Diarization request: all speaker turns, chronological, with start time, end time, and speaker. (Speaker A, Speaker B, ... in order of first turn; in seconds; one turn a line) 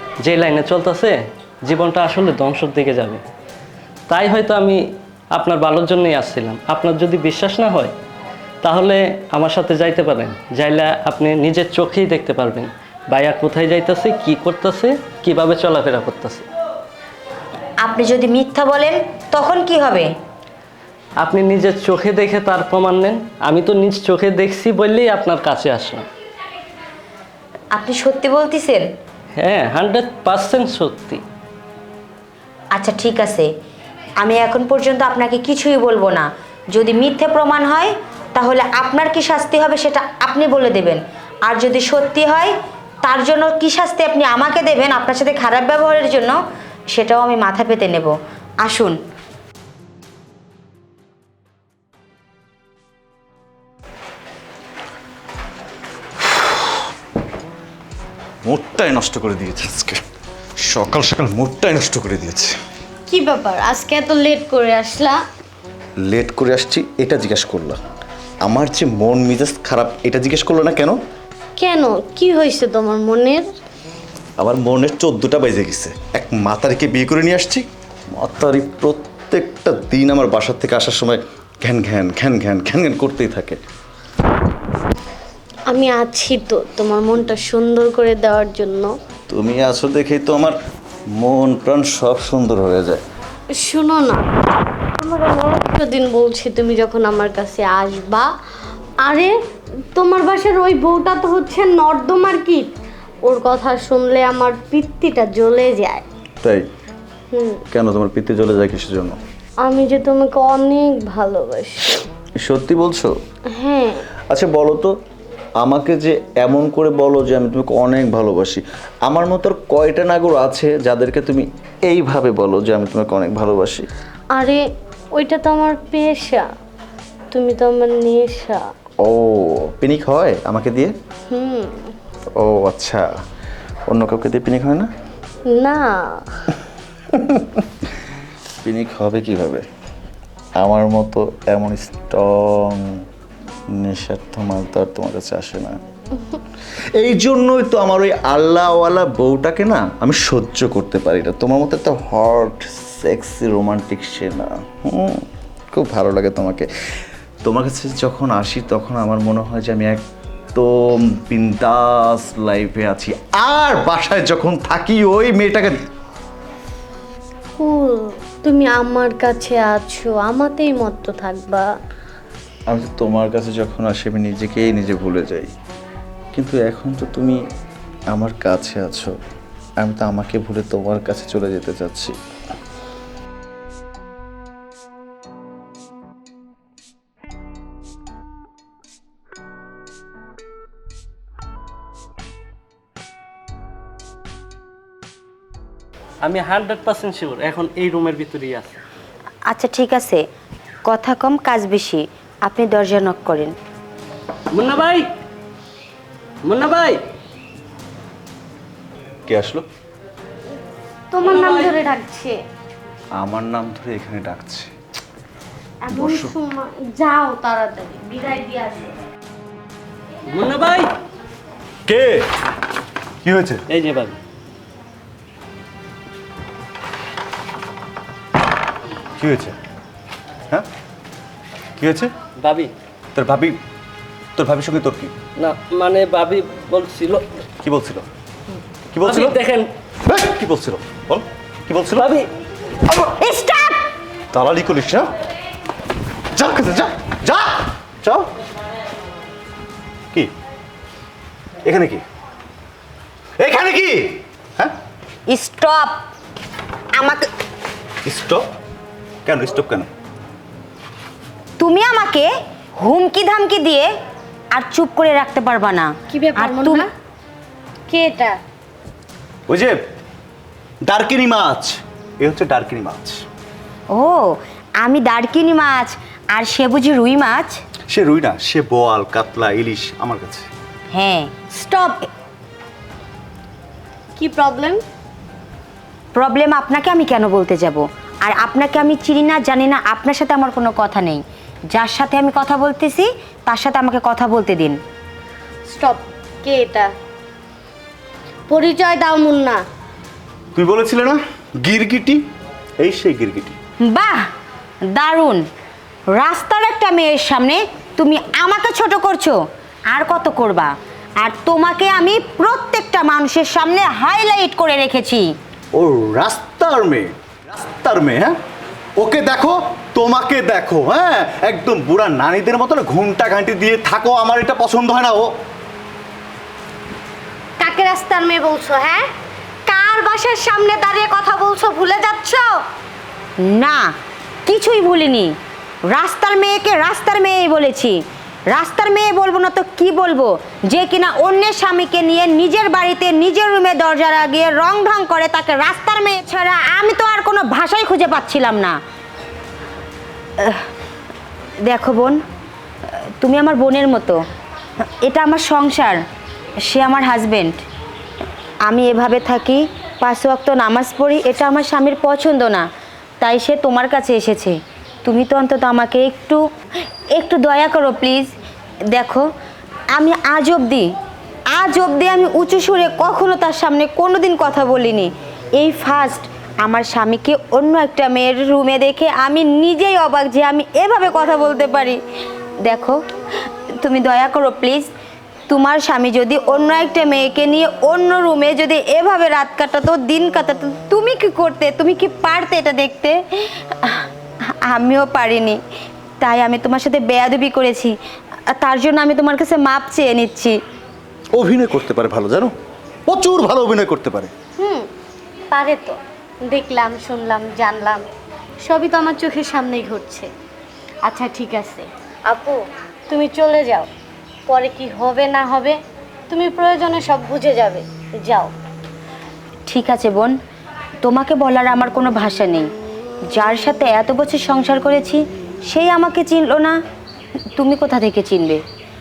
Speaker A: 0.2-3.2
Speaker A: 4.1-4.8
Speaker A: 5.3-7.9
Speaker A: 8.6-16.4
Speaker B: 17.8-20.1
Speaker A: 21.2-26.1
Speaker B: 27.7-28.9
Speaker A: 29.4-31.2
Speaker B: 32.7-33.5
Speaker B: 34.2-46.4
Speaker B: 46.9-49.0
Speaker C: 58.4-60.0
Speaker C: 60.6-62.6
Speaker D: 63.1-65.2
Speaker C: 66.0-67.8
Speaker C: 68.4-71.0
Speaker D: 71.6-73.5
Speaker C: 74.4-83.6
Speaker D: 85.7-88.9
Speaker C: 89.3-90.6
Speaker C: 91.1-93.0
Speaker D: 93.5-94.2
Speaker D: 94.9-98.3
Speaker D: 99.0-99.4
Speaker D: 99.9-102.7
Speaker D: 103.2-106.0
Speaker C: 106.4-106.7
Speaker D: 107.3-107.6
Speaker C: 107.7-109.2
Speaker D: 109.6-112.0
Speaker C: 112.4-113.2
Speaker D: 113.5-114.0
Speaker C: 114.3-115.0
Speaker C: 115.6-123.9
Speaker D: 124.3-126.5
Speaker D: 127.3-128.7
Speaker C: 129.0-131.0
Speaker D: 131.3-131.9
Speaker C: 132.3-133.2
Speaker C: 133.9-134.9
Speaker D: 135.5-136.2
Speaker C: 137.1-137.9
Speaker C: 138.6-139.7
Speaker C: 140.6-143.0
Speaker C: 143.7-145.8
Speaker C: 146.9-156.7
Speaker C: 157.4-165.9
Speaker D: 167.6-171.7
Speaker C: 172.7-175.5
Speaker C: 176.3-177.4
Speaker C: 178.1-179.1
Speaker C: 179.8-182.2
Speaker A: 196.2-198.8
Speaker B: 199.5-200.2
Speaker B: 200.9-203.5
Speaker A: 204.5-205.1
Speaker A: 206.4-207.0
Speaker C: 209.3-209.7
Speaker D: 211.1-212.4
Speaker C: 213.2-214.7
Speaker D: 215.8-218.9
Speaker C: 215.9-216.3
Speaker A: 220.3-220.9
Speaker C: 221.9-222.3
Speaker C: 223.2-223.6
Speaker A: 223.7-224.2
Speaker C: 229.2-229.6
Speaker C: 231.8-232.1
Speaker A: 232.4-232.7
Speaker C: 233.1-233.6
Speaker C: 234.3-235.1
Speaker A: 235.4-237.3
Speaker C: 237.6-238.1
Speaker C: 238.9-239.4
Speaker A: 239.0-239.7
Speaker C: 240.0-242.2
Speaker A: 241.9-242.3
Speaker B: 242.9-243.8
Speaker C: 244.3-245.1
Speaker C: 246.3-248.3
Speaker C: 251.6-252.0
Speaker C: 253.4-254.8
Speaker B: 255.3-256.1
Speaker B: 256.9-257.3
Speaker C: 258.0-258.5
Speaker C: 259.2-259.9
Speaker B: 261.6-263.9
Speaker B: 264.5-266.9
Speaker D: 266.1-266.9
Speaker D: 267.9-268.4
Speaker C: 269.5-269.8
Speaker C: 270.8-273.2
Speaker B: 273.9-277.6
Speaker C: 277.9-280.5
Speaker B: 280.9-281.3
Speaker D: 281.5-282.1
Speaker D: 284.1-284.8
Speaker B: 286.1-294.8
Speaker D: 295.7-296.9
Speaker D: 298.5-299.6
Speaker C: 300.5-302.2
Speaker C: 302.8-303.6
Speaker B: 303.8-304.3
Speaker B: 304.9-305.4
Speaker B: 306.1-315.3
Speaker C: 315.7-318.4
Speaker C: 319.0-325.3
Speaker D: 327.6-329.1
Speaker D: 329.6-332.6
Speaker B: 333.4-333.9
Speaker B: 334.4-335.3
Speaker B: 335.9-338.0
Speaker B: 338.5-348.8
Speaker B: 350.4-350.7
Speaker B: 351.6-352.2
Speaker B: 353.2-354.2
Speaker B: 355.0-356.0
Speaker B: 356.7-357.6
Speaker B: 358.6-362.7
Speaker B: 363.2-366.4
Speaker B: 367.1-368.3
Speaker B: 368.9-369.3
Speaker B: 369.9-370.9
Speaker B: 371.5-382.0
Speaker B: 382.6-383.0
Speaker B: 383.8-384.9
Speaker B: 385.5-395.6
Speaker B: 396.2-397.9
Speaker B: 398.5-400.6
Speaker C: 401.3-402.5
Speaker C: 403.1-404.3
Speaker D: 404.6-404.9
Speaker D: 405.5-408.0
Speaker D: 408.6-410.3
Speaker D: 411.0-413.9
Speaker D: 414.5-415.8
Speaker D: 416.3-418.5
Speaker B: 419.7-420.4
Speaker B: 421.0-422.7
Speaker B: 423.3-426.8
Speaker B: 427.6-428.6